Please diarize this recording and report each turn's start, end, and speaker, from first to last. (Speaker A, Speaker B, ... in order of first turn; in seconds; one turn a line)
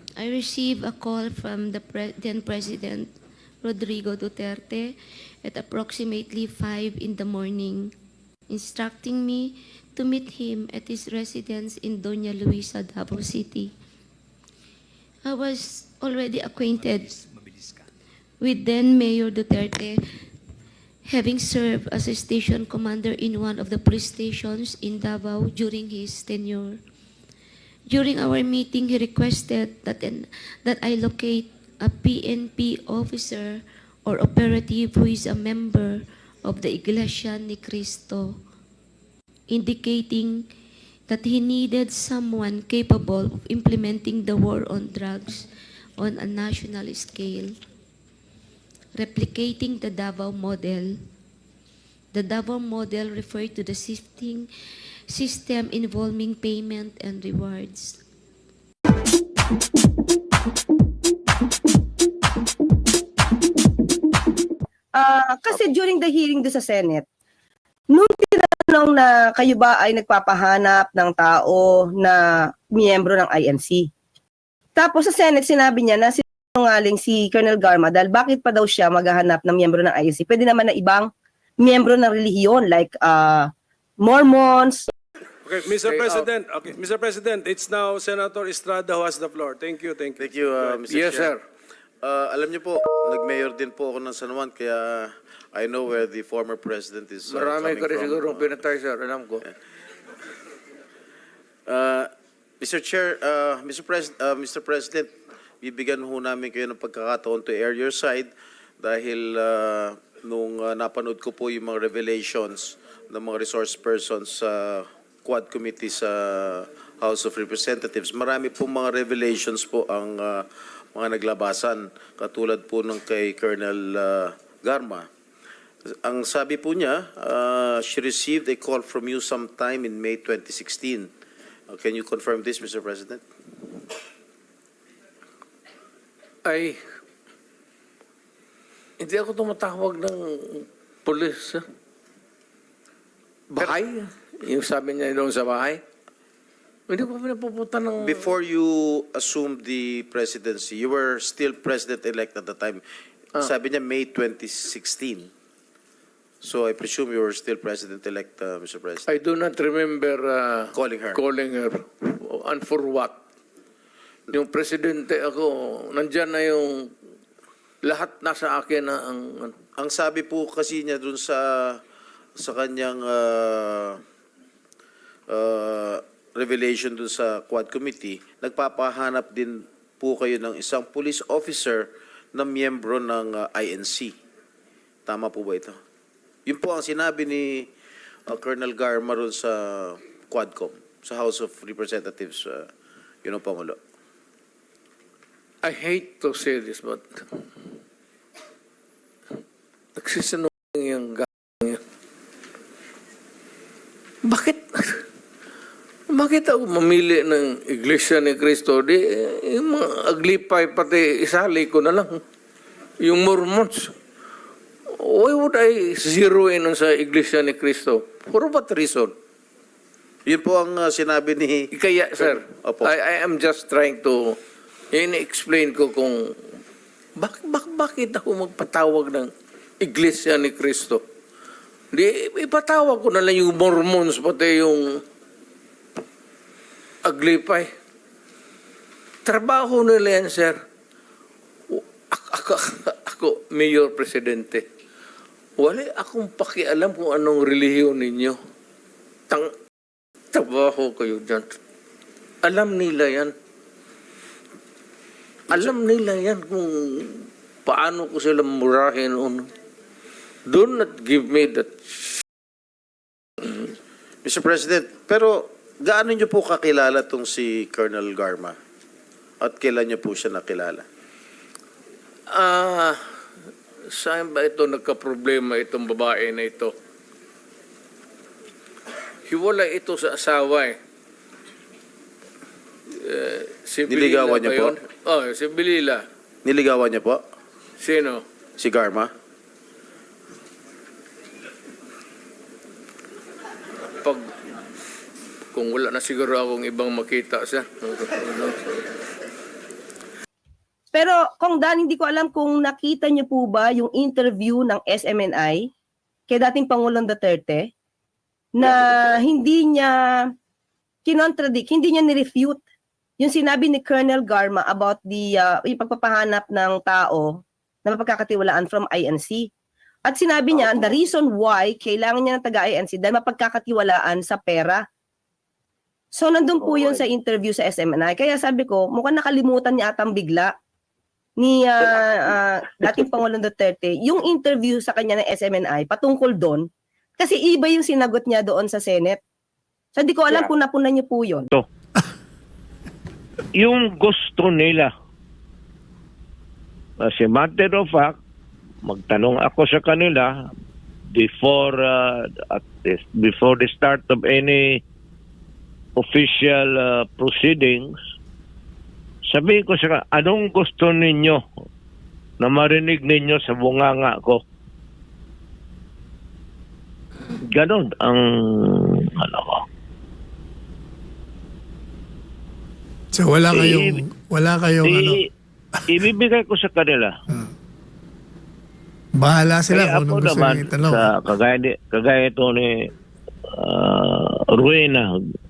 Speaker A: 0.2-7.9
Speaker A: 8.5-13.7
Speaker A: 15.2-17.2
Speaker A: 18.4-20.0
Speaker A: 21.0-26.8
Speaker A: 27.9-38.4
Speaker A: 39.5-40.5
Speaker A: 41.1-45.5
Speaker A: 46.0-47.5
Speaker A: 48.9-51.0
Speaker A: 52.1-54.5
Speaker A: 55.1-58.0
Speaker B: 64.9-67.0
Speaker B: 67.9-73.9
Speaker B: 74.8-84.9
Speaker C: 85.5-90.2
Speaker D: 85.8-86.3
Speaker E: 90.2-91.3
Speaker D: 90.9-91.4
Speaker E: 92.0-98.6
Speaker D: 97.3-99.5
Speaker E: 101.7-125.1
Speaker E: 126.0-131.1
Speaker E: 131.7-133.2
Speaker D: 136.4-136.8
Speaker D: 139.0-141.6
Speaker D: 143.5-145.8
Speaker D: 146.9-148.3
Speaker E: 148.0-152.8
Speaker E: 153.4-155.3
Speaker E: 156.4-159.0
Speaker D: 159.1-163.2
Speaker E: 160.7-161.2
Speaker D: 164.3-166.9
Speaker D: 167.8-169.5
Speaker E: 169.8-171.8
Speaker E: 172.4-174.0
Speaker E: 175.3-184.1
Speaker E: 185.1-185.8
Speaker E: 186.4-187.7
Speaker E: 188.3-192.7
Speaker E: 193.2-193.8
Speaker D: 195.6-197.0
Speaker D: 200.0-201.8
Speaker D: 204.2-205.0
Speaker D: 206.1-212.2
Speaker D: 213.0-213.9
Speaker D: 215.0-219.1
Speaker E: 220.2-222.9
Speaker D: 221.7-224.4
Speaker D: 224.9-226.3
Speaker D: 227.2-231.0
Speaker D: 231.9-234.8
Speaker D: 237.0-237.7
Speaker D: 239.2-240.6
Speaker D: 241.7-244.6
Speaker D: 245.6-248.4
Speaker D: 250.3-251.5
Speaker D: 252.4-253.3
Speaker D: 255.5-259.5
Speaker D: 260.5-262.2
Speaker D: 263.4-263.7
Speaker E: 264.2-268.6
Speaker E: 269.4-270.8
Speaker D: 272.3-273.0
Speaker D: 273.9-276.7
Speaker D: 279.3-280.8
Speaker D: 283.0-286.0
Speaker E: 283.9-284.8
Speaker E: 286.4-287.2
Speaker D: 287.8-288.2
Speaker E: 288.6-289.1
Speaker D: 294.0-294.3
Speaker D: 295.5-298.8
Speaker B: 300.9-305.7
Speaker B: 306.3-307.7
Speaker B: 308.5-310.3
Speaker B: 311.0-312.6
Speaker B: 313.2-319.5
Speaker B: 320.1-324.8
Speaker B: 326.1-330.5
Speaker B: 331.4-339.2
Speaker B: 339.9-341.5
Speaker F: 343.5-344.9
Speaker F: 347.0-348.1
Speaker F: 348.8-350.5
Speaker F: 351.1-354.8
Speaker F: 356.0-357.9
Speaker F: 359.3-361.4
Speaker F: 362.4-364.4
Speaker F: 367.5-369.6
Speaker G: 373.1-375.2
Speaker F: 373.5-374.0
Speaker F: 374.8-375.2
Speaker F: 375.9-377.1
Speaker G: 379.1-381.1
Speaker F: 379.7-382.8
Speaker F: 383.5-385.1